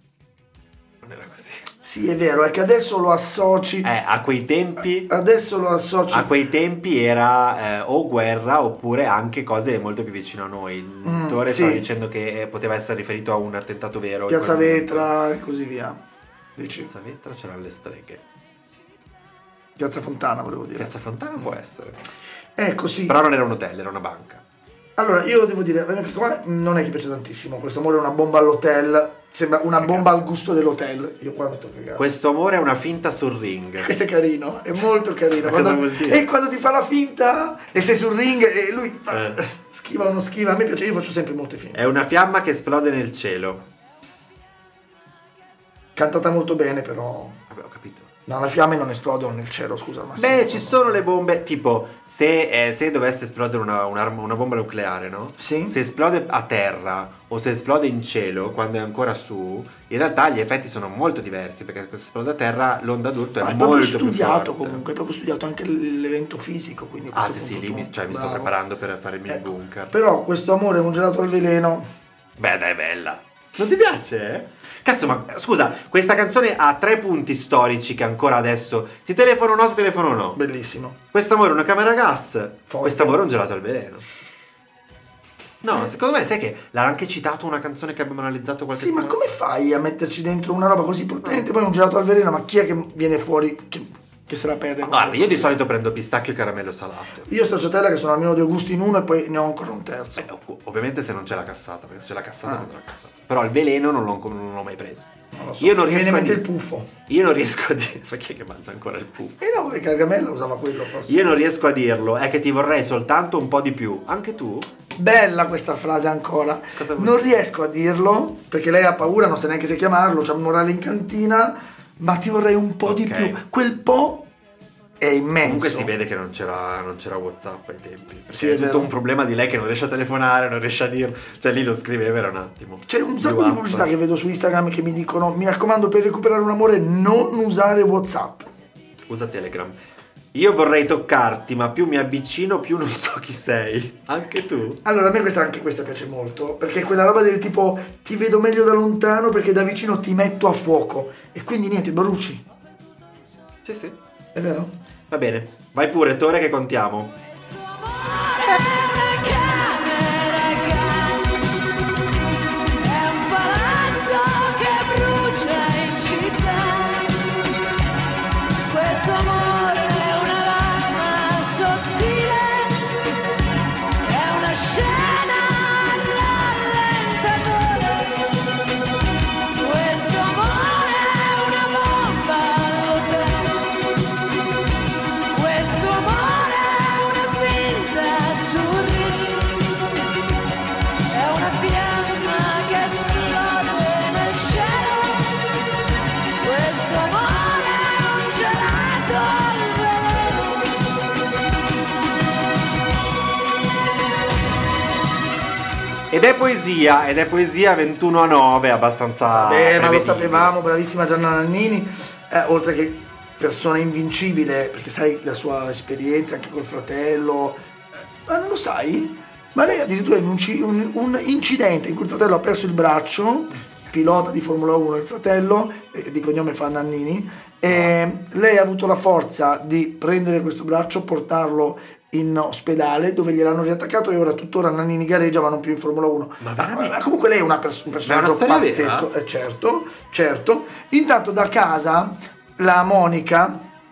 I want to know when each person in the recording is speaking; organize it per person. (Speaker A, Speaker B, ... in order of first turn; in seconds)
Speaker A: 1.0-1.7, 3.8-5.1, 6.1-15.1, 16.7-18.2, 20.8-22.0, 23.1-24.4, 29.8-30.1, 32.0-33.9, 35.3-36.3, 39.1-39.4, 41.7-43.7, 47.5-48.1, 50.2-64.8, 67.1-69.9, 72.4-80.4, 81.1-84.0, 85.6-89.4, 94.8-97.3, 100.2-105.1, 105.6-106.5, 107.1-109.4, 111.0-114.7, 116.7-117.4, 122.8-123.4, 125.4-133.9, 139.1-139.8, 140.3-144.8, 153.7-154.0, 155.1-157.2, 206.1-210.5, 236.4-237.0, 238.1-239.1
Speaker B: 1.8-3.9, 5.1-6.3, 11.0-11.9, 14.3-16.0, 16.6-16.9, 19.8-20.9, 22.6-23.2, 25.0-32.0, 33.8-41.8, 46.0-47.4, 48.3-51.0, 55.4-55.8, 63.4-68.5, 69.3-71.9, 80.3-81.0, 82.7-83.2, 88.7-95.6, 97.3-100.3, 105.3-106.9, 109.4-111.4, 115.0-124.3, 125.0-125.9, 128.3-128.9, 132.9-138.5, 144.8-152.4, 154.3-154.8, 209.3-217.6, 218.3-243.6
Speaker C: 157.6-161.6, 162.7-167.4, 168.7-172.9, 174.0-178.3, 179.6-183.8, 185.3-189.9, 191.1-195.3, 196.4-200.7